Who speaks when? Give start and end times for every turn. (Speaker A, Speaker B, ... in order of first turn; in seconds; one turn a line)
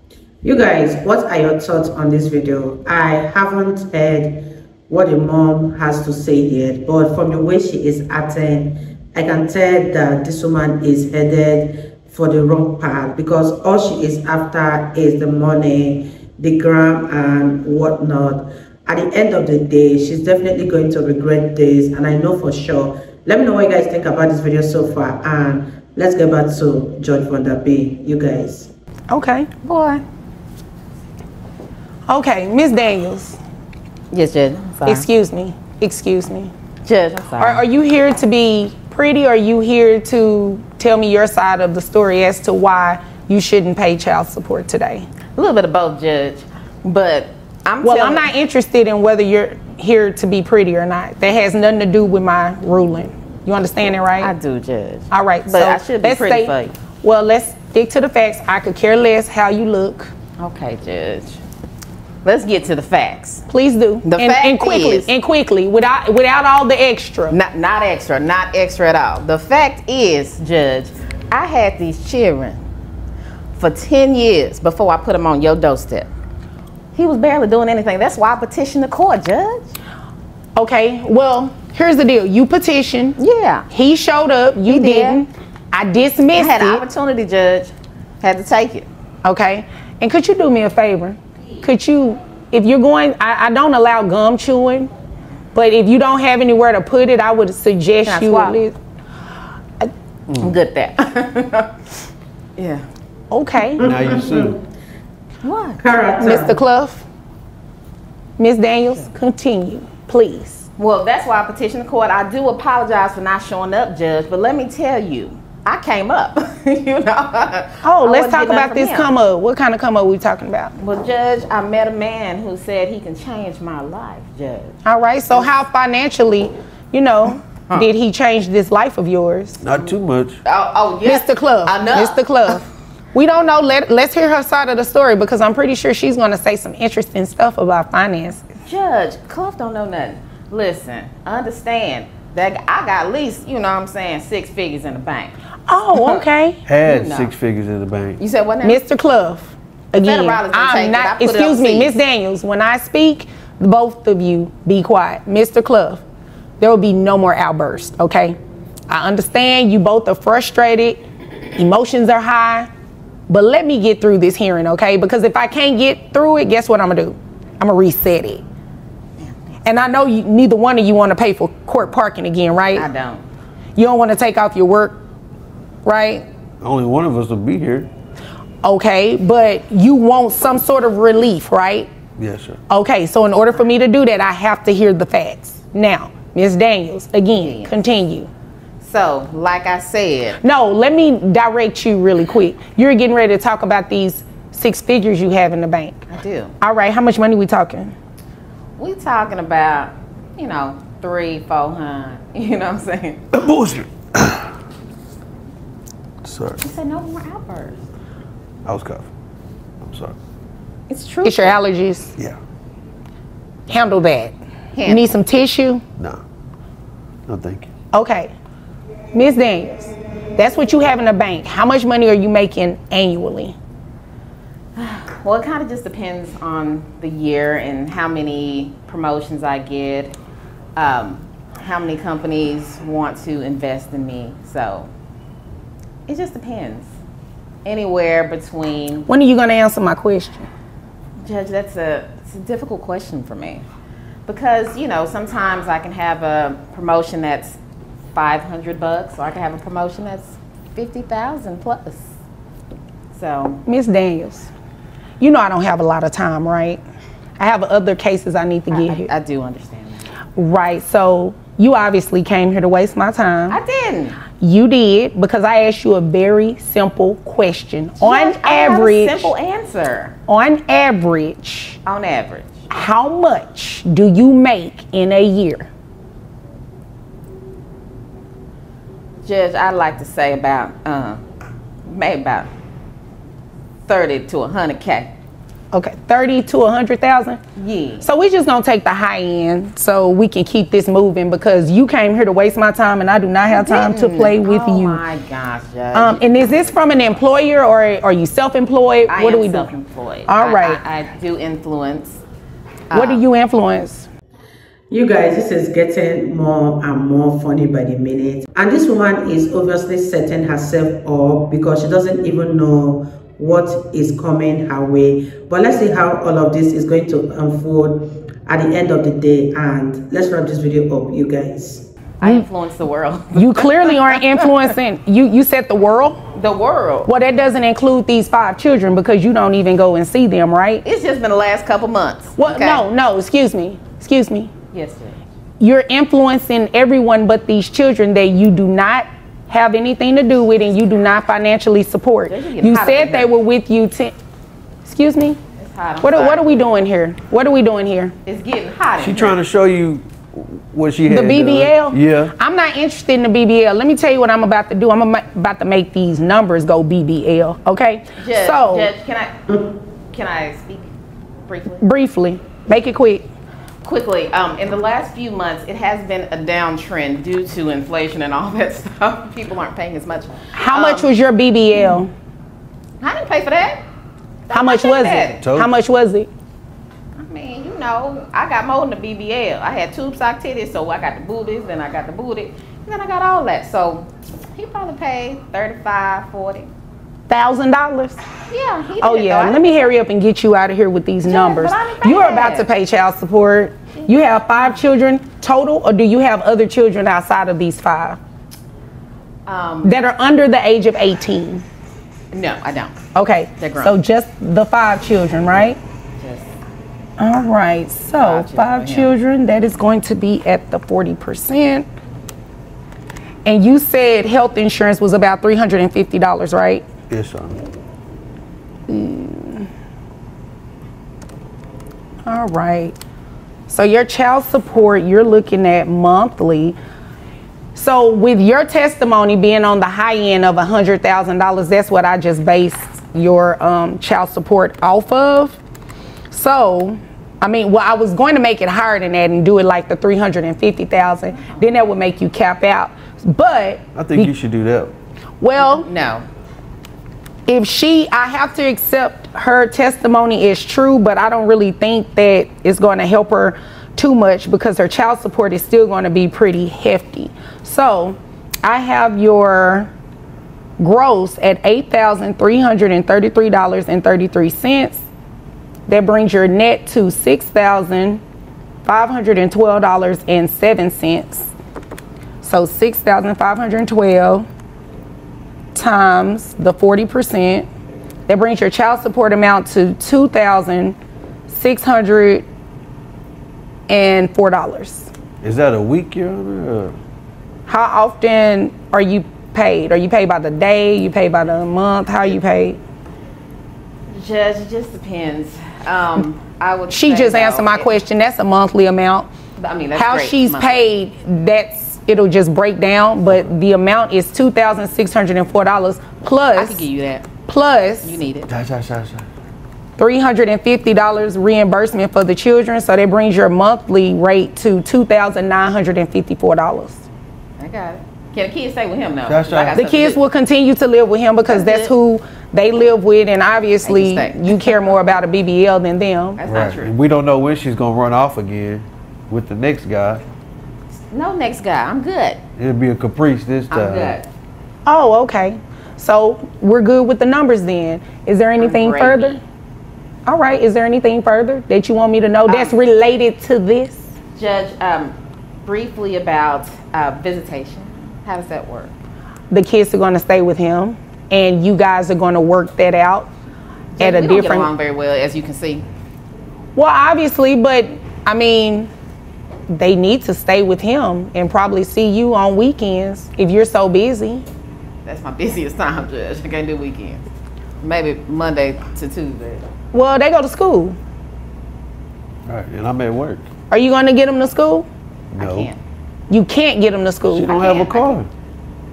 Speaker A: 0.4-28.7
Speaker B: 29.1-29.5
Speaker C: 29.6-30.0
Speaker B: 32.1-33.4
Speaker C: 34.1-35.1
Speaker B: 34.8-36.5
Speaker C: 36.8-37.6
Speaker B: 37.4-45.1
Speaker C: 45.3-48.3
Speaker B: 47.8-54.3
Speaker C: 54.2-56.8
Speaker B: 55.1-60.1
Speaker C: 60.4-61.4
Speaker C: 62.2-63.4
Speaker B: 63.5-67.4
Speaker C: 64.0-65.1
Speaker C: 67.3-72.6
Speaker C: 73.5-76.1
Speaker C: 76.9-79.7
Speaker B: 80.5-83.2
Speaker C: 83.2-83.7
Speaker B: 83.7-86.8
Speaker C: 84.6-85.2
Speaker C: 86.3-88.9
Speaker B: 89.2-94.9
Speaker B: 95.5-98.7
Speaker C: 98.0-98.6
Speaker D: 100.3-100.6
Speaker C: 100.4-101.7
Speaker C: 102.6-102.8
Speaker B: 103.3-103.8
Speaker A: 103.8-104.5
Speaker D: 103.8-104.6
Speaker C: 105.4-105.9
Speaker A: 105.8-106.5
Speaker B: 106.2-107.0
Speaker B: 108.4-110.7
Speaker C: 110.8-119.1
Speaker B: 117.8-120.7
Speaker C: 120.8-124.8
Speaker B: 124.8-129.6
Speaker D: 129.6-130.4
Speaker C: 130.4-132.5
Speaker B: 131.0-138.4
Speaker C: 138.6-145.3
Speaker B: 145.7-146.6
Speaker C: 145.9-146.2
Speaker D: 146.7-148.2
Speaker C: 146.8-147.3
Speaker C: 148.2-148.8
Speaker B: 148.6-156.0
Speaker C: 149.9-151.9
Speaker B: 156.6-158.4
Speaker B: 158.9-162.7
Speaker B: 163.3-168.4
Speaker B: 169.6-172.9
Speaker C: 172.7-173.2
Speaker B: 173.7-175.0
Speaker B: 175.8-176.2
Speaker D: 176.6-177.9
Speaker B: 178.6-181.9
Speaker D: 182.2-182.6
Speaker B: 182.7-188.3
Speaker C: 187.3-187.8
Speaker C: 188.8-190.4
Speaker B: 190.4-196.1
Speaker C: 196.1-196.5
Speaker B: 196.6-197.9
Speaker C: 198.8-203.3
Speaker D: 203.3-204.5
Speaker D: 206.2-206.7
Speaker C: 206.6-207.8
Speaker D: 208.6-209.1
Speaker D: 209.8-210.2
Speaker C: 210.9-211.6
Speaker B: 211.2-212.1
Speaker B: 213.7-215.8
Speaker C: 214.7-215.1
Speaker D: 217.3-217.7
Speaker B: 217.9-218.3
Speaker B: 219.1-223.6
Speaker C: 224.8-230.1
Speaker C: 230.8-234.9
Speaker C: 236.1-236.9
Speaker C: 237.6-239.1
Speaker B: 239.1-240.5
Speaker C: 241.2-243.6
Speaker C: 244.3-247.6
Speaker C: 248.1-252.1
Speaker C: 253.1-253.6
Speaker B: 253.7-254.5
Speaker B: 255.2-256.8
Speaker B: 257.4-259.1
Speaker C: 258.7-260.1
Speaker B: 260.3-263.6
Speaker C: 263.5-264.2
Speaker B: 264.4-269.3
Speaker C: 268.0-270.1
Speaker B: 270.3-271.8
Speaker C: 271.8-272.6
Speaker B: 272.7-275.7
Speaker C: 279.2-281.2
Speaker C: 281.9-282.5
Speaker C: 283.9-285.1
Speaker B: 285.7-287.4
Speaker C: 287.6-288.1
Speaker B: 288.0-295.0
Speaker C: 293.5-297.0
Speaker B: 295.9-299.7
Speaker C: 299.1-302.2
Speaker B: 300.3-300.8
Speaker C: 302.9-303.2
Speaker B: 302.9-304.1
Speaker A: 304.9-321.8
Speaker C: 322.2-324.6
Speaker B: 323.3-326.2
Speaker C: 326.3-327.1
Speaker B: 327.0-330.8
Speaker C: 330.8-332.9
Speaker B: 332.4-334.5
Speaker C: 334.7-335.2
Speaker B: 335.6-344.1
Speaker C: 342.3-343.3
Speaker B: 344.8-345.4
Speaker C: 345.6-346.6
Speaker B: 346.0-348.1
Speaker C: 348.2-349.4
Speaker D: 349.0-352.3
Speaker B: 351.0-358.9
Speaker C: 358.2-359.6
Speaker C: 360.1-360.9
Speaker C: 361.5-361.8
Speaker B: 361.8-363.2
Speaker C: 363.8-371.1
Speaker B: 370.5-372.1
Speaker C: 373.0-373.8
Speaker C: 374.5-375.4
Speaker B: 374.5-376.3
Speaker D: 375.4-375.7
Speaker C: 377.2-386.7
Speaker B: 387.3-388.2
Speaker C: 388.5-389.9
Speaker B: 389.0-398.2
Speaker C: 391.2-392.7
Speaker C: 394.3-394.7
Speaker C: 399.4-399.9
Speaker B: 399.8-401.6
Speaker C: 402.3-402.9
Speaker B: 403.1-405.8
Speaker C: 403.6-403.9
Speaker C: 406.2-406.5
Speaker B: 407.2-411.9
Speaker C: 408.1-409.1
Speaker B: 413.4-416.8
Speaker D: 417.1-417.6
Speaker B: 418.9-419.7
Speaker B: 422.2-422.9
Speaker B: 423.7-426.8
Speaker B: 427.7-435.6
Speaker B: 436.3-444.3
Speaker C: 441.4-441.7
Speaker D: 443.9-444.9
Speaker B: 445.4-445.9
Speaker C: 445.6-446.3
Speaker B: 447.5-459.9
Speaker B: 460.8-465.0
Speaker B: 465.9-468.2
Speaker B: 468.8-471.5
Speaker B: 472.4-474.4
Speaker B: 475.7-477.7
Speaker B: 478.3-481.0
Speaker B: 481.5-482.4
Speaker B: 483.9-485.1
Speaker D: 485.4-486.9
Speaker B: 487.7-492.8
Speaker C: 494.1-497.9
Speaker B: 496.9-499.3
Speaker C: 499.6-500.8
Speaker B: 499.9-506.8
Speaker C: 506.5-507.3
Speaker B: 507.4-508.2
Speaker C: 508.0-508.5
Speaker D: 508.5-509.2
Speaker B: 510.0-517.0
Speaker C: 517.6-520.2
Speaker D: 519.2-519.8
Speaker B: 519.8-526.4
Speaker C: 521.4-521.9
Speaker C: 523.8-524.8
Speaker C: 526.4-526.9
Speaker D: 526.4-530.2
Speaker C: 531.1-532.4
Speaker D: 532.6-534.1
Speaker C: 533.7-534.3
Speaker B: 534.9-539.4
Speaker C: 538.6-539.4
Speaker B: 540.2-544.1
Speaker C: 542.5-542.8
Speaker C: 544.4-548.9
Speaker B: 549.5-553.3
Speaker C: 554.0-555.9
Speaker B: 554.0-554.7
Speaker B: 556.7-558.9
Speaker B: 559.7-564.4
Speaker C: 565.0-567.2
Speaker C: 567.8-569.6
Speaker B: 569.9-571.0
Speaker D: 572.5-573.4
Speaker B: 573.7-574.9
Speaker D: 575.3-575.7
Speaker C: 575.4-575.8
Speaker B: 576.3-577.6
Speaker D: 577.3-578.3
Speaker C: 577.5-578.2